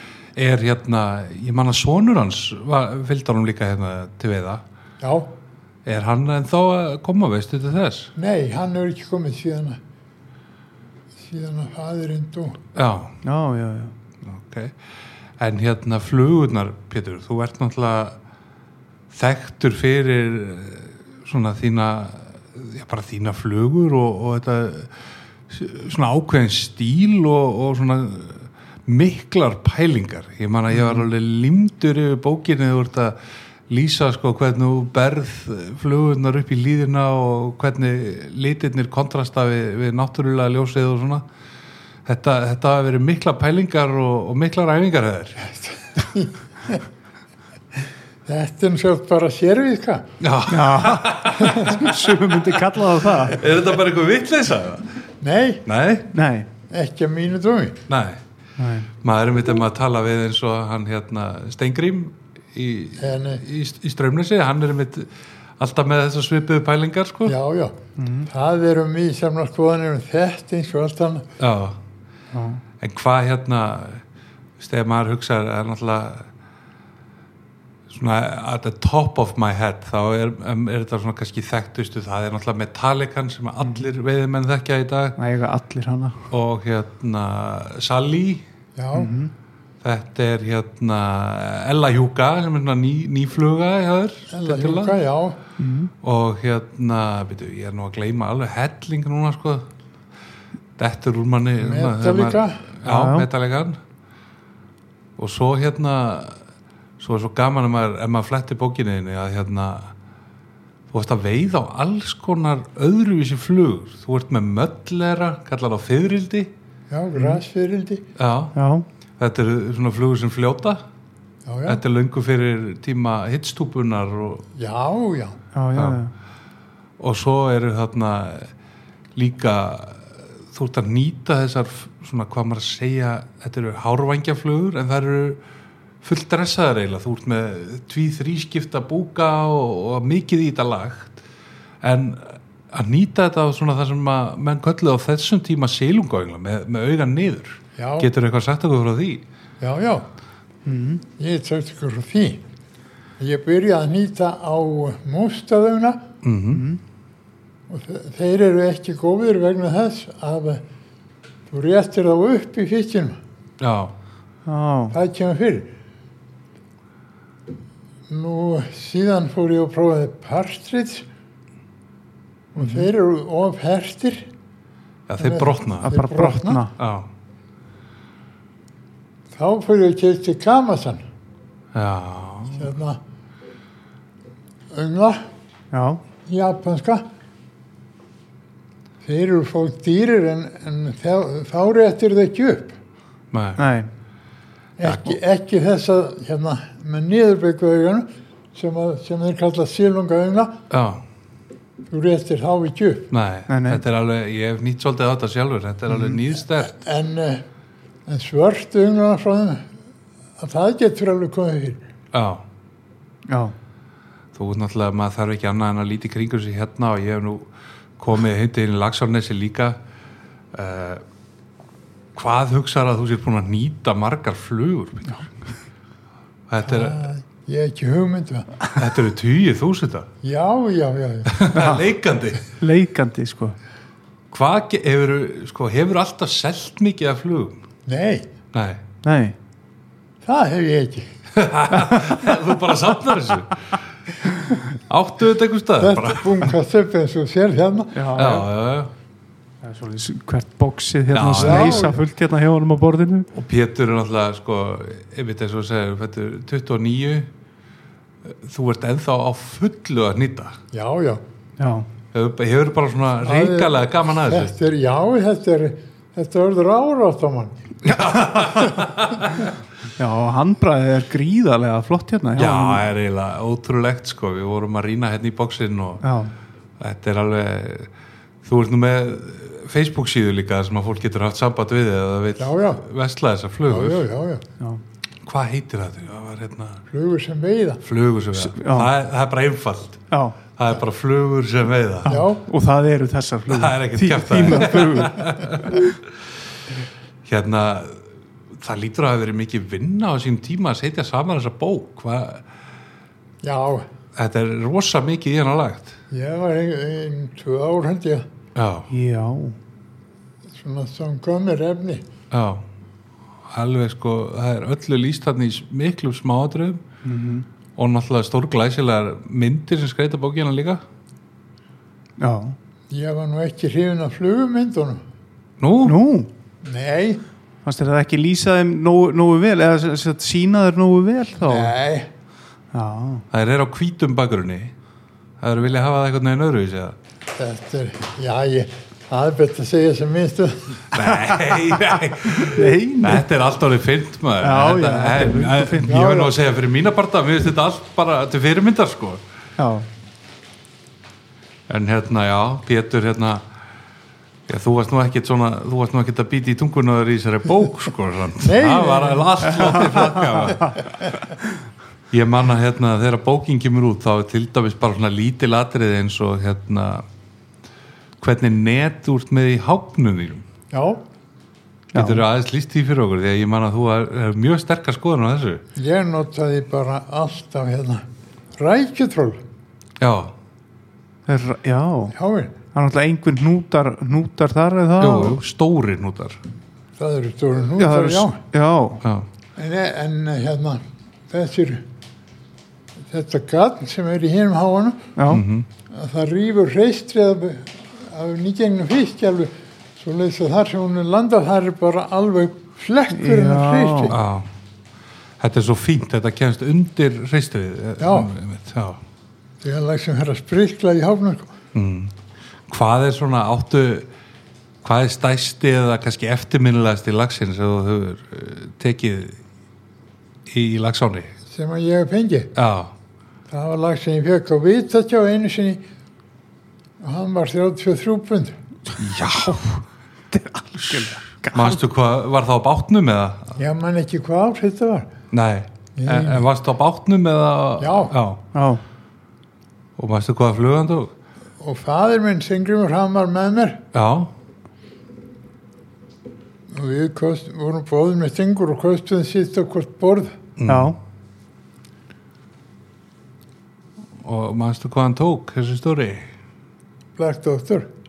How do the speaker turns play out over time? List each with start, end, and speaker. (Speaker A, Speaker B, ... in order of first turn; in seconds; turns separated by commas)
Speaker A: 0.3-4.6, Speaker B: 5.0-5.3, Speaker A: 5.8-8.1, Speaker B: 8.2-9.8, Speaker B: 11.2-12.6, Speaker A: 12.7-13.1, Speaker C: 13.2-13.9, Speaker A: 14.2-14.7, Speaker A: 15.4-18.2, Speaker A: 19.1-24.9, Speaker A: 25.5-33.1, Speaker C: 30.7-31.0, Speaker A: 33.7-41.2, Speaker A: 42.0-45.4, Speaker B: 45.4-46.8, Speaker B: 48.2-50.0, Speaker A: 50.2-52.2, Speaker C: 50.5-53.4, Speaker B: 51.4-51.7, Speaker A: 53.1-54.9, Speaker B: 55.2-55.6, Speaker A: 55.6-56.1, Speaker C: 56.1-56.5, Speaker B: 56.7-57.8, Speaker A: 57.9-58.2, Speaker C: 58.6-58.9, Speaker A: 59.0-67.3, Speaker B: 63.0-63.4, Speaker B: 67.2-67.7, Speaker C: 68.0-68.3, Speaker B: 68.3-71.2, Speaker A: 71.4-71.8, Speaker C: 72.3-72.6, Speaker A: 72.8-74.0, Speaker A: 74.6-76.2, Speaker A: 77.9-85.2, Speaker C: 85.2-86.2, Speaker A: 86.3-88.4, Speaker B: 88.8-89.1, Speaker C: 88.9-89.3, Speaker A: 89.8-95.0, Speaker B: 94.3-95.4, Speaker C: 95.6-95.9, Speaker A: 96.0-99.7, Speaker A: 100.8-103.8, Speaker B: 101.6-102.6, Speaker C: 102.8-103.3, Speaker A: 105.2-106.4, Speaker A: 107.0-109.9, Speaker A: 110.9-116.5, Speaker B: 116.9-118.0, Speaker A: 118.2-118.5, Speaker C: 118.5-118.8, Speaker A: 119.2-120.8, Speaker B: 121.5-121.8, Speaker A: 121.7-124.4, Speaker B: 124.5-125.4, Speaker C: 125.5-126.1, Speaker A: 125.7-126.0, Speaker A: 127.0-128.5, Speaker A: 129.2-135.4, Speaker A: 136.0-141.2, Speaker A: 141.8-149.2, Speaker B: 147.8-148.1, Speaker B: 149.6-150.0, Speaker C: 150.7-151.0, Speaker B: 151.2-152.4, Speaker B: 153.2-156.0, Speaker A: 156.2-156.7, Speaker C: 156.5-156.8, Speaker B: 157.7-160.6, Speaker B: 161.5-163.2, Speaker A: 163.6-163.9, Speaker C: 164.4-164.9, Speaker B: 164.9-165.7, Speaker B: 168.1-171.0, Speaker B: 172.5-174.2, Speaker C: 172.6-172.8, Speaker A: 175.1-175.9, Speaker B: 175.2-176.6, Speaker C: 175.8-176.7, Speaker A: 176.8-177.1, Speaker B: 179.3-181.0, Speaker A: 181.7-182.7, Speaker B: 182.5-183.0, Speaker B: 184.7-185.2, Speaker C: 185.7-186.0, Speaker B: 186.3-187.0, Speaker B: 189.0-192.7, Speaker A: 193.3-193.6, Speaker C: 193.6-193.9, Speaker B: 194.8-200.6, Speaker A: 194.8-195.2, Speaker A: 200.7-201.0, Speaker B: 201.9-203.1, Speaker A: 203.1-206.7, Speaker C: 203.5-203.8, Speaker B: 206.6-207.4, Speaker B: 208.1-209.6, Speaker B: 210.4-211.8, Speaker A: 212.1-212.4, Speaker C: 213.3-213.5, Speaker A: 214.3-219.8, Speaker A: 220.5-221.0, Speaker A: 222.1-225.3, Speaker A: 226.5-227.1, Speaker B: 226.6-228.7, Speaker A: 228.8-230.1, Speaker B: 230.2-231.3, Speaker A: 231.2-232.4, Speaker C: 231.5-231.8, Speaker C: 232.6-233.5, Speaker A: 234.3-237.6, Speaker B: 237.8-238.3, Speaker A: 238.5-238.8, Speaker C: 239.0-239.3, Speaker B: 240.2-241.1, Speaker A: 241.3-243.7, Speaker A: 244.9-246.5, Speaker B: 245.8-248.1, Speaker C: 247.9-248.5, Speaker A: 248.2-248.9, Speaker C: 249.6-253.3, Speaker A: 251.1-251.9, Speaker B: 251.3-252.0, Speaker A: 253.3-257.3, Speaker A: 258.2-260.6, Speaker B: 260.7-261.2, Speaker C: 261.6-261.9, Speaker A: 262.1-264.5, Speaker B: 263.2-267.5, Speaker A: 267.8-269.5, Speaker C: 270.0-272.8, Speaker A: 272.4-276.0, Speaker C: 276.0-276.3, Speaker A: 276.8-277.9, Speaker A: 278.4-284.0, Speaker B: 282.4-282.8, Speaker B: 283.6-284.4, Speaker A: 285.2-286.8, Speaker B: 286.9-287.8, Speaker A: 287.8-290.0, Speaker C: 288.3-288.9, Speaker C: 290.1-290.4, Speaker A: 290.6-292.1, Speaker C: 292.0-295.8, Speaker B: 292.1-292.4, Speaker A: 293.5-295.9, Speaker A: 297.2-302.4, Speaker B: 303.4-303.9, Speaker A: 304.1-305.9, Speaker B: 306.1-308.2, Speaker A: 308.5-308.9, Speaker C: 308.9-309.6, Speaker B: 310.5-312.0, Speaker A: 312.3-312.6, Speaker A: 313.5-316.8, Speaker C: 317.0-317.4, Speaker A: 317.8-320.8, Speaker C: 322.2-322.6, Speaker B: 322.9-325.0, Speaker A: 325.6-326.0, Speaker C: 325.8-326.3, Speaker B: 326.6-327.2, Speaker C: 327.6-331.7, Speaker B: 331.4-332.1, Speaker C: 332.7-333.2, Speaker A: 333.3-334.7, Speaker A: 335.4-336.9, Speaker B: 337.4-340.8, Speaker A: 340.9-349.2, Speaker C: 342.3-343.2, Speaker C: 344.4-345.9, Speaker B: 345.9-346.3, Speaker C: 349.6-349.9, Speaker A: 351.7-353.4, Speaker A: 354.5-360.7, Speaker B: 358.4-359.9, Speaker C: 359.8-360.7, Speaker A: 362.1-367.0, Speaker A: 368.2-370.4, Speaker B: 370.7-371.0, Speaker C: 371.9-372.2, Speaker A: 371.9-375.6, Speaker B: 375.8-378.0, Speaker B: 378.6-379.4, Speaker A: 380.0-380.3, Speaker C: 381.3-382.1, Speaker B: 382.1-382.5, Speaker C: 382.7-385.4, Speaker A: 385.0-386.4, Speaker B: 387.0-388.4, Speaker C: 387.8-389.0, Speaker B: 389.6-391.8, Speaker B: 393.1-395.1, Speaker C: 395.1-395.4, Speaker A: 395.3-395.7, Speaker B: 395.9-404.2, Speaker C: 403.1-404.1, Speaker A: 404.1-404.5, Speaker A: 405.4-409.0, Speaker B: 408.0-408.3, Speaker B: 409.6-411.5, Speaker A: 411.7-412.1, Speaker A: 412.7-414.1, Speaker A: 414.8-419.4, Speaker A: 420.5-421.3, Speaker B: 421.5-422.5, Speaker A: 422.5-422.9, Speaker B: 423.5-425.8, Speaker B: 427.0-428.5, Speaker A: 429.0-429.8, Speaker C: 430.3-431.8, Speaker A: 430.9-433.6, Speaker B: 433.6-435.1, Speaker A: 435.3-438.4, Speaker B: 435.9-436.4, Speaker B: 437.8-438.1, Speaker C: 438.5-438.8, Speaker A: 440.0-441.1, Speaker B: 441.6-443.8, Speaker A: 443.9-444.3, Speaker B: 446.7-450.3, Speaker A: 450.6-450.9, Speaker C: 450.7-451.0, Speaker A: 454.2-456.3, Speaker B: 457.2-457.9